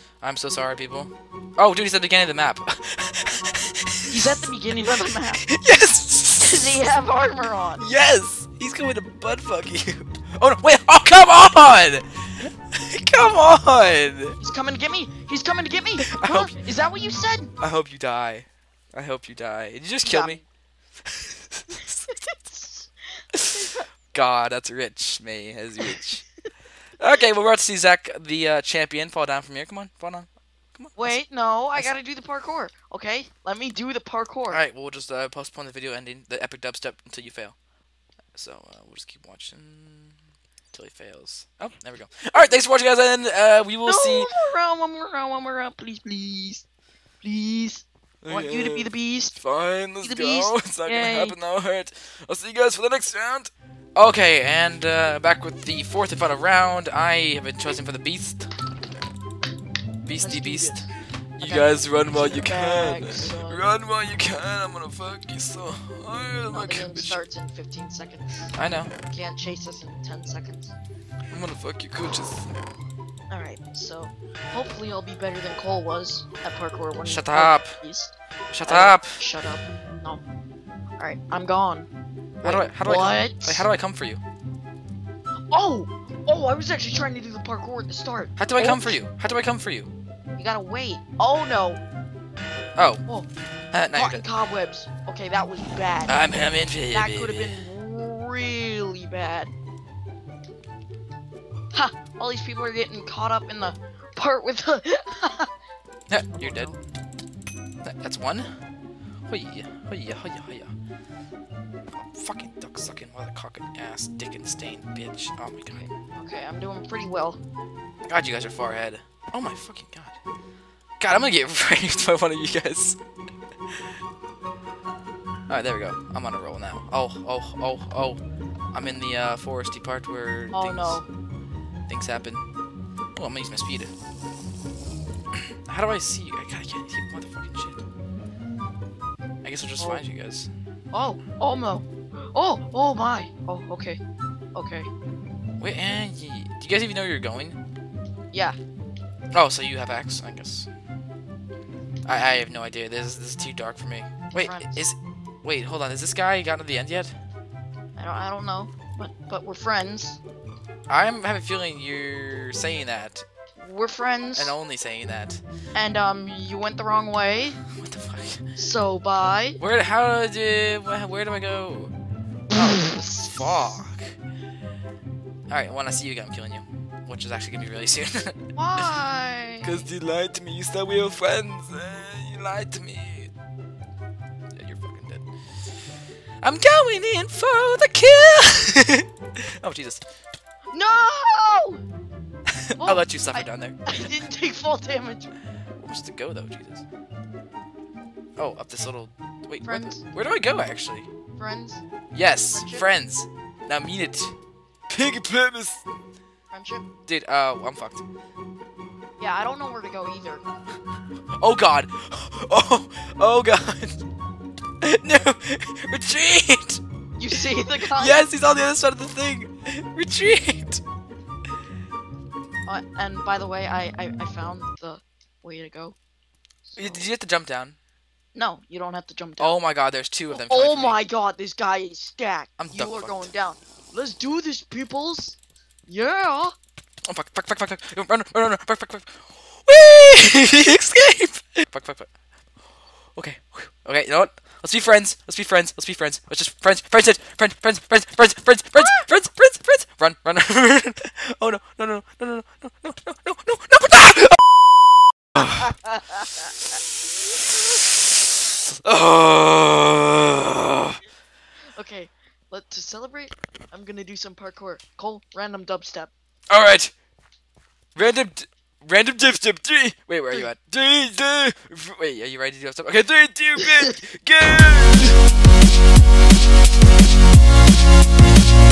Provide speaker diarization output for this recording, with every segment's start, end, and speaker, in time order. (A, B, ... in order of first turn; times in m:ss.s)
0:00.2-0:04.4 A
0:04.1-0:05.4 B
0:05.2-0:07.0 A
0:06.4-0:07.8 B
0:07.8-0:14.4 A
0:14.4-0:17.5 B
0:16.0-0:16.5 A
0:17.6-0:20.4 A
0:20.0-0:20.4 B
0:21.0-0:22.1 A
0:22.1-0:23.9 B
0:23.3-0:26.2 A
0:27.0-0:31.2 A
0:31.0-0:34.6 B
0:34.5-0:37.5 A
0:38.3-0:40.2 A
0:40.7-0:44.3 A
0:43.8-0:46.6 B
0:47.2-0:49.4 B
0:48.2-0:58.5 A
0:50.0-0:51.4 B
1:00.0-1:07.2 A
1:00.2-1:03.7 B
1:06.5-1:08.5 B
1:08.6-1:08.9 A
1:09.0-1:10.7 B
1:11.3-1:12.5 A
1:13.3-1:20.2 B
1:17.0-1:17.8 A
1:18.5-1:19.2 A
1:21.0-1:21.9 B
1:22.4-1:24.2 A
1:22.4-1:23.6 B
1:25.5-1:29.0 B
1:28.4-1:29.9 A
1:30.4-1:31.8 B
1:32.8-1:33.0 A
1:33.7-1:34.2 A
1:33.9-1:36.2 B
1:36.1-1:37.6 A
1:36.9-1:39.5 B
1:41.7-1:45.5 B
1:46.1-1:46.7 A
1:46.3-1:46.8 B
1:47.8-1:48.5 A
1:49.3-1:50.7 A
1:52.0-1:55.8 A
1:55.7-1:57.4 B
1:58.0-2:00.2 A
2:01.0-2:03.0 A
2:05.5-2:08.2 A
2:08.7-2:11.0 A
2:10.5-2:11.0 B
2:11.9-2:12.4 A
2:13.1-2:13.9 A
2:15.3-2:17.8 A
2:19.4-2:20.5 A
2:19.8-2:20.0 B
2:20.9-2:24.0 B
2:24.5-2:24.9 B
2:25.6-2:27.6 A
2:28.3-2:28.6 B
2:29.3-2:30.7 A
2:32.0-2:37.1 A
2:34.3-2:34.8 B
2:38.0-2:40.2 B
2:40.9-2:43.2 A
2:43.6-2:44.6 B
2:44.3-2:45.4 A
2:45.7-2:47.6 B
2:47.7-2:48.4 A
2:48.6-2:49.6 B
2:49.6-2:51.9 A
2:52.5-2:53.8 B
2:52.5-2:54.1 A
2:55.5-2:59.0 A
2:58.5-2:59.8 B
2:59.6-3:03.3 A
3:04.5-3:05.3 A
3:06.4-3:10.0 A
3:10.7-3:11.8 B
3:12.5-3:13.9 A
3:12.8-3:15.3 B
3:15.8-3:16.8 A
3:18.4-3:21.1 A
3:19.6-3:20.0 B
3:21.4-3:21.8 B
3:22.1-3:24.3 A
3:22.5-3:22.9 B
3:24.9-3:25.8 A
3:26.5-3:26.8 B
3:27.1-3:28.0 A
3:29.2-3:30.4 B
3:31.4-3:34.0 A
3:34.8-3:36.8 A
3:37.2-3:38.2 B
3:37.3-3:40.8 A
3:42.6-3:46.0 B
3:46.7-3:47.1 B
3:46.8-3:47.8 A
3:48.3-3:49.6 B
3:49.4-3:51.0 A
3:50.3-3:56.5 B
3:52.6-3:53.3 A
3:57.0-4:02.1 A
4:03.2-4:14.4 A
4:15.4-4:15.7 A
4:15.4-4:16.3 B
4:18.3-4:21.0 A
4:21.8-4:26.1 B
4:26.5-4:26.9 A
4:28.0-4:35.2 A
4:33.6-4:33.9 B